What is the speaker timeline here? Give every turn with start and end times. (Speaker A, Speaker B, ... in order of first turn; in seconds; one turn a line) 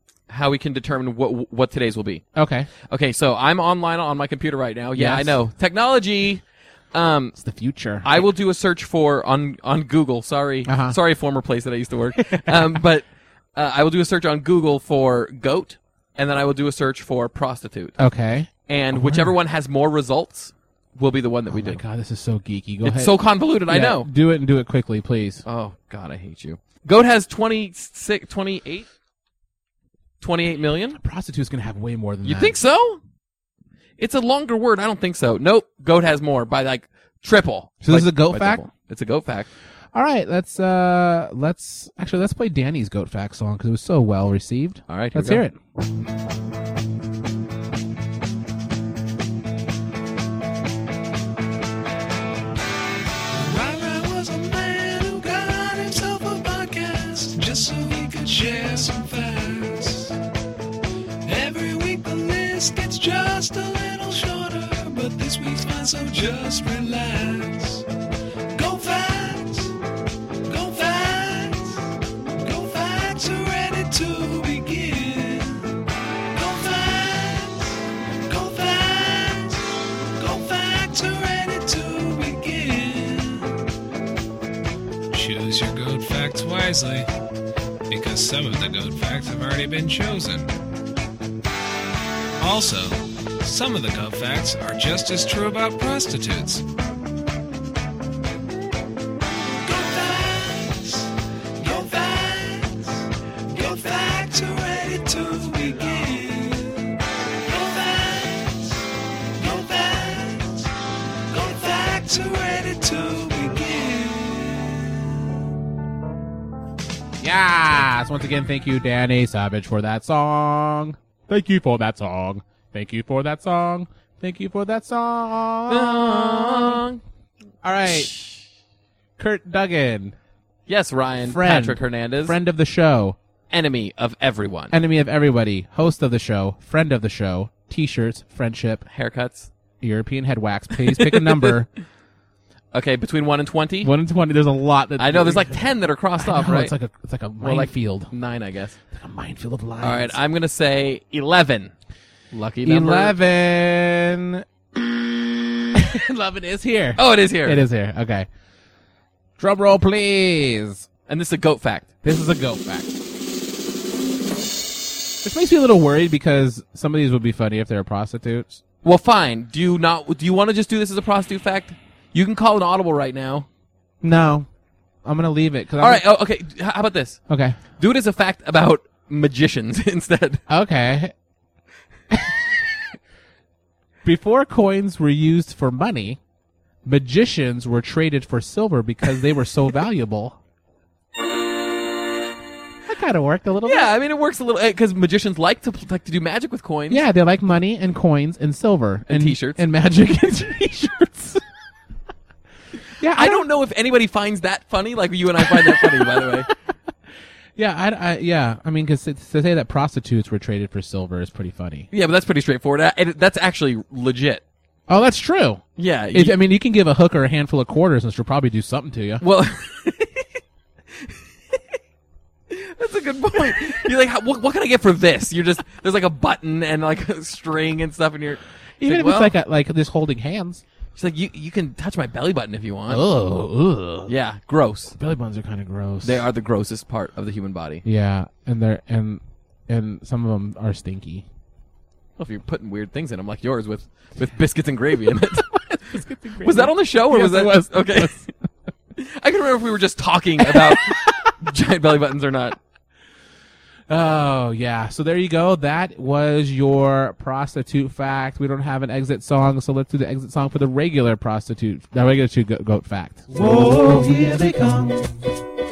Speaker A: 0.3-2.2
Speaker B: 2.3-2.7
Speaker A: 2.9-7.3
Speaker B: 4.9-5.4
Speaker B: 7.4-8.1
Speaker A: 8.0-17.9
Speaker B: 10.7-11.0
Speaker B: 12.2-12.8
Speaker B: 18.0-19.3
Speaker A: 18.7-21.8
Speaker B: 21.5-23.1
Speaker A: 22.8-24.1
Speaker B: 23.7-25.4
Speaker A: 25.4-28.9
Speaker A: 30.2-31.0
Speaker B: 31.0-32.5
Speaker A: 32.2-33.0
Speaker A: 34.0-39.5
Speaker B: 37.8-38.6
Speaker B: 39.9-45.6
Speaker A: 44.9-45.4
Speaker C: 53.3-60.2
Speaker C: 61.2-67.8
Speaker C: 68.5-69.7
Speaker C: 70.5-71.8
Speaker C: 72.4-75.8
Speaker C: 76.3-77.7
Speaker C: 78.3-79.6
Speaker C: 80.2-83.5
Speaker C: 85.1-87.1
Speaker C: 87.9-90.5
Speaker C: 92.4-96.6
Speaker C: 99.6-103.0
Speaker C: 103.5-108.8
Speaker C: 109.4-110.7
Speaker C: 111.3-115.1
Speaker B: 117.2-126.8
Speaker A: 125.7-127.0
Speaker B: 127.6-128.1
Speaker B: 129.2-130.1
Speaker A: 130.7-132.3
Speaker B: 131.2-133.2
Speaker A: 133.5-134.7
Speaker B: 134.7-138.8
Speaker A: 138.9-139.5
Speaker B: 139.8-141.7
Speaker A: 140.8-141.5
Speaker A: 142.7-143.9
Speaker B: 143.8-145.6
Speaker A: 145.0-146.7
Speaker B: 146.2-148.1
Speaker A: 147.4-148.8
Speaker B: 148.9-150.1
Speaker A: 149.8-151.7
Speaker A: 152.3-153.2
Speaker B: 152.6-154.4
Speaker B: 155.7-158.3
Speaker A: 156.9-157.6
Speaker B: 159.4-160.9
Speaker A: 161.1-161.9
Speaker B: 162.0-162.9
Speaker B: 165.2-168.6
Speaker A: 168.8-173.5
Speaker B: 174.0-174.5
Speaker B: 175.0-176.0
Speaker A: 175.8-177.2
Speaker B: 177.3-177.6
Speaker A: 177.8-180.4
Speaker B: 180.5-181.1
Speaker B: 182.1-182.4
Speaker B: 184.0-186.2
Speaker B: 186.8-190.4
Speaker B: 192.8-193.9
Speaker A: 193.6-197.0
Speaker B: 196.9-201.4
Speaker A: 199.1-199.6
Speaker B: 203.0-203.4
Speaker A: 203.1-206.5
Speaker B: 205.4-206.4
Speaker B: 207.6-211.9
Speaker A: 211.9-214.4
Speaker B: 214.9-219.2
Speaker A: 215.8-216.4
Speaker A: 219.2-220.4
Speaker A: 221.0-221.6
Speaker A: 222.5-229.3
Speaker B: 228.8-230.6
Speaker A: 230.9-233.0
Speaker B: 232.9-234.1
Speaker A: 234.1-234.9
Speaker B: 234.9-236.2
Speaker A: 236.0-237.8
Speaker B: 237.8-241.2
Speaker A: 242.2-248.3
Speaker B: 245.8-248.2
Speaker A: 248.9-252.6
Speaker B: 250.4-251.1
Speaker B: 253.9-265.2